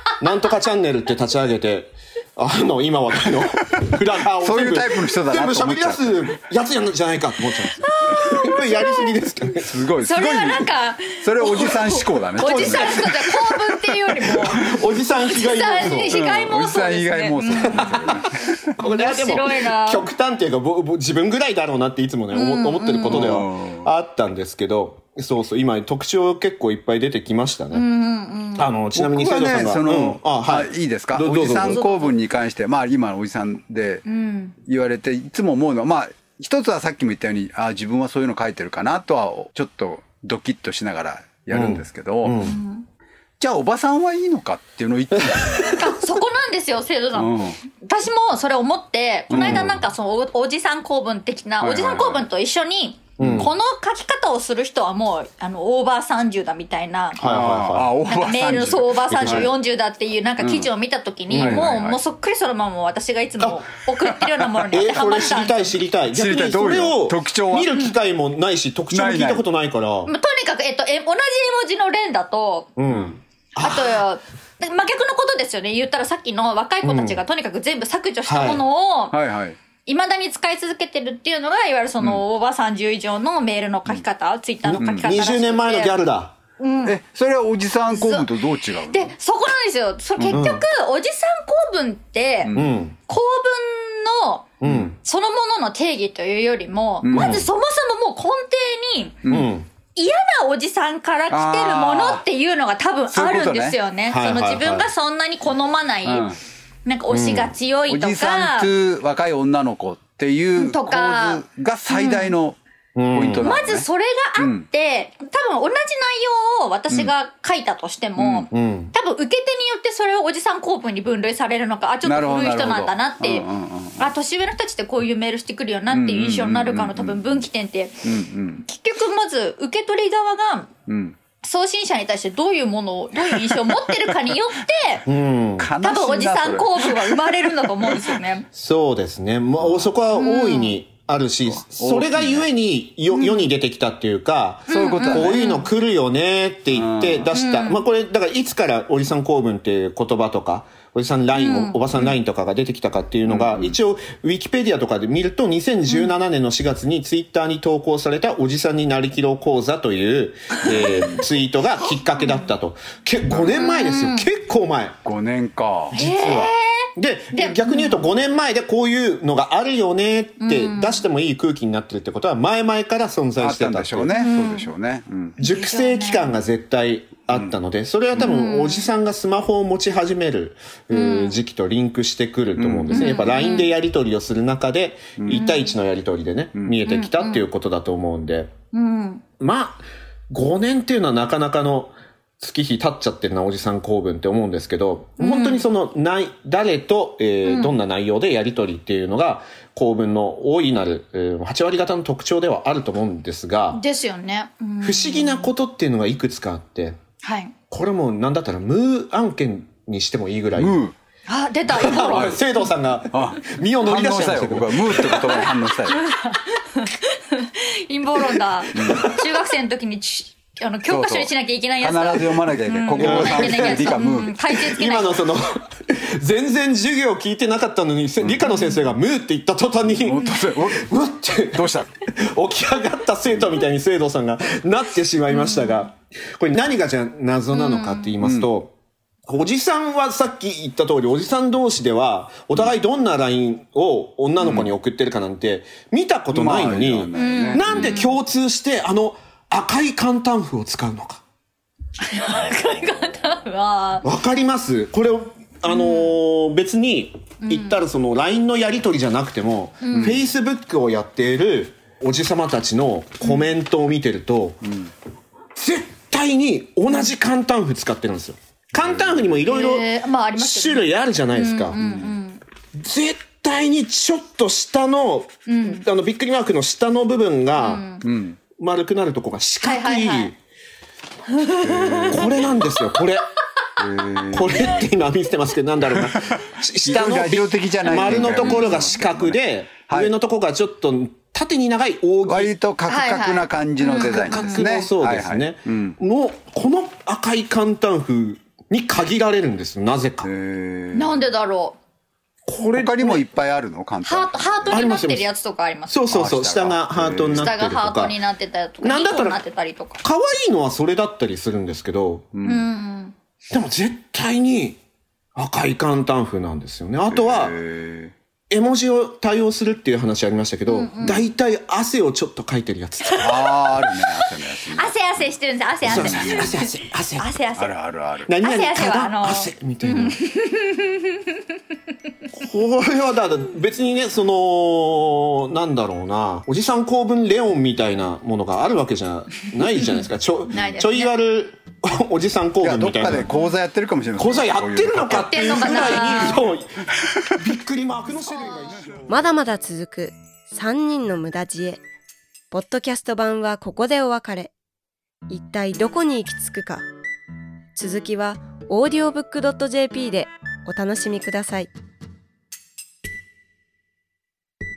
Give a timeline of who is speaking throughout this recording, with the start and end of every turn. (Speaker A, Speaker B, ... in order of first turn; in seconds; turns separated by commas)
Speaker A: 0.2-9.9, Speaker B: 4.4-6.4, Speaker C: 7.8-9.1, Speaker B: 9.6-14.7, Speaker C: 10.0-18.1, Speaker A: 12.5-12.9, Speaker A: 14.3-16.4, Speaker B: 15.8-18.7, Speaker A: 17.4-18.2, Speaker A: 18.8-27.9, Speaker C: 18.8-20.1, Speaker C: 22.3-23.4, Speaker B: 23.0-23.9, Speaker C: 27.7-28.7, Speaker A: 28.5-31.8, Speaker B: 28.9-34.0, Speaker C: 31.7-32.1, Speaker C: 34.0-34.5, Speaker B: 34.6-42.4, Speaker A: 41.5-42.6, Speaker C: 42.4-42.9, Speaker B: 43.4-45.8, Speaker C: 45.6-57.2, Speaker B: 47.1-47.6, Speaker B: 49.3-49.8, Speaker A: 49.3-49.8, Speaker B: 51.6-52.3, Speaker A: 53.2-53.5, Speaker B: 53.2-53.5, Speaker A: 57.2-58.0, Speaker B: 57.2-59.5, Speaker C: 58.1-65.8, Speaker A: 59.0-59.5, Speaker B: 60.4-60.7, Speaker A: 61.3-61.8, Speaker B: 61.3-62.0, Speaker B: 64.1-64.6, Speaker A: 64.7-70.1, Speaker B: 66.1-67.7, Speaker B: 68.9-69.5, Speaker C: 70.0-72.7, Speaker A: 72.8-74.1, Speaker C: 73.6-79.2, Speaker A: 76.8-77.2, Speaker A: 78.2-78.6, Speaker B: 79.1-79.6, Speaker C: 79.8-86.0, Speaker B: 84.7-85.2, Speaker A: 84.7-86.3, Speaker C: 86.6-87.0, Speaker B: 86.8-89.1, Speaker C: 87.9-92.5, Speaker B: 90.2-90.4, Speaker A: 90.3-90.6, Speaker B: 92.4-92.7, Speaker A: 92.5-93.0, Speaker C: 93.1-94.5, Speaker A: 94.6-95.0, Speaker B: 94.6-94.9, Speaker C: 95.0-99.2, Speaker B: 97.0-97.5, Speaker A: 97.1-97.5, Speaker B: 99.2-99.5, Speaker A: 99.3-99.7, Speaker C: 99.9-106.3, Speaker B: 101.3-102.2, Speaker B: 103.1-103.8, Speaker A: 104.1-104.9, Speaker B: 106.0-106.4, Speaker C: 106.8-108.7, Speaker A: 107.1-107.5, Speaker B: 107.9-112.6, Speaker C: 110.5-112.3, Speaker A: 113.0-113.6, Speaker B: 113.1-113.9, Speaker C: 113.3-128.0, Speaker B: 114.4-114.7, Speaker B: 118.2-118.5, Speaker A: 118.5-118.9, Speaker B: 122.0-124.1, Speaker B: 125.9-127.4, Speaker B: 128.0-128.6, Speaker C: 128.6-130.7, Speaker B: 130.9-131.2, Speaker C: 131.4-135.0, Speaker B: 133.4-133.8, Speaker A: 135.1-135.7, Speaker B: 135.6-138.2, Speaker C: 135.8-138.5, Speaker A: 138.5-165.0, Speaker B: 139.6-139.9, Speaker C: 140.1-140.8, Speaker B: 141.4-142.5, Speaker C: 143.1-143.5, Speaker B: 144.7-145.5, Speaker C: 144.7-145.7, Speaker B: 146.7-147.3, Speaker C: 147.3-147.8, Speaker C: 151.3-151.8, Speaker B: 153.3-153.8, Speaker C: 155.9-156.1, Speaker C: 160.8-161.2, Speaker C: 162.2-162.5, Speaker B: 163.3-163.6, Speaker C: 163.5-164.3, Speaker B: 165.0-166.0, Speaker A: 165.9-174.2, Speaker C: 165.9-168.1, Speaker C: 170.4-171.0, Speaker B: 173.4-175.4, Speaker C: 174.2-174.7, Speaker A: 175.4-188.5, Speaker C: 175.4-176.3, Speaker C: 178.2-178.9, Speaker C: 180.9-181.4, Speaker B: 182.6-183.2, Speaker C: 182.9-183.7, Speaker B: 185.2-185.4, Speaker C: 185.3-185.7, Speaker C: 186.9-187.5, Speaker C: 188.7-189.2, Speaker A: 189.4-203.8, Speaker C: 195.2-195.7, Speaker C: 197.4-197.8, Speaker C: 203.7-205.5, Speaker A: 204.8-207.0, Speaker C: 207.2-207.5, Speaker A: 207.7-210.8, Speaker B: 210.5-210.9, Speaker C: 211.3-212.5, Speaker A: 211.7-215.5, Speaker B: 211.9-212.4, Speaker B: 213.1-216.0, Speaker C: 215.9-225.2, Speaker B: 218.7-219.0, Speaker B: 220.9-224.3, Speaker A: 222.9-238.7, Speaker B: 228.2-228.5, Speaker C: 228.5-228.8, Speaker B: 230.0-230.9, Speaker B: 231.5-231.9, Speaker C: 235.3-235.9, Speaker C: 237.5-238.1, Speaker B: 238.2-238.5, Speaker A: 239.2-251.2, Speaker B: 244.4-244.7, Speaker B: 246.3-248.1, Speaker C: 247.1-248.2, Speaker C: 252.0-254.1, Speaker A: 254.0-264.6, Speaker C: 255.7-256.1, Speaker C: 257.4-257.8, Speaker C: 259.8-260.2, Speaker B: 259.9-260.2, Speaker C: 263.2-263.5, Speaker B: 264.6-264.9, Speaker A: 265.6-271.8, Speaker B: 268.8-269.3, Speaker C: 269.4-272.4, Speaker B: 271.8-272.1, Speaker A: 272.7-277.9, Speaker C: 275.4-275.8, Speaker C: 277.6-278.0, Speaker B: 278.0-278.4, Speaker A: 278.6-280.4, Speaker C: 279.6-280.3, Speaker C: 281.3-282.2, Speaker B: 281.6-282.6, Speaker A: 282.1-283.2, Speaker B: 283.8-284.8, Speaker A: 284.3-292.5, Speaker B: 285.9-290.1, Speaker C: 287.9-288.9, Speaker B: 292.2-296.0, Speaker C: 292.9-294.7, Speaker A: 293.9-300.3, Speaker B: 300.2-301.2, Speaker C: 300.9-301.8, Speaker A: 302.4-303.2, Speaker B: 302.7-304.9, Speaker C: 304.0-306.1, Speaker A: 304.7-305.3, Speaker A: 305.9-308.1, Speaker B: 306.1-307.5, Speaker C: 307.4-310.0, Speaker A: 308.8-309.4, Speaker A: 310.0-312.3, Speaker B: 312.3-312.7, Speaker C: 312.4-313.1, Speaker A: 313.5-314.8, Speaker A: 315.4-317.6, Speaker B: 317.1-318.1, Speaker A: 318.5-323.4, Speaker C: 320.7-321.2, Speaker C: 323.1-323.5, Speaker B: 323.2-326.5, Speaker C: 324.6-327.8, Speaker A: 325.8-327.4, Speaker B: 327.6-328.3, Speaker A: 328.3-330.1, Speaker C: 328.4-331.4, Speaker A: 332.3-343.3, Speaker C: 340.5-341.2, Speaker B: 342.6-346.4, Speaker A: 344.2-346.8, Speaker C: 345.1-346.4, Speaker A: 347.4-349.2, Speaker C: 348.2-348.8, Speaker D: 349.1-351.8, Speaker D: 352.5-354.5, Speaker D: 355.3-356.9, Speaker D: 357.8-361.7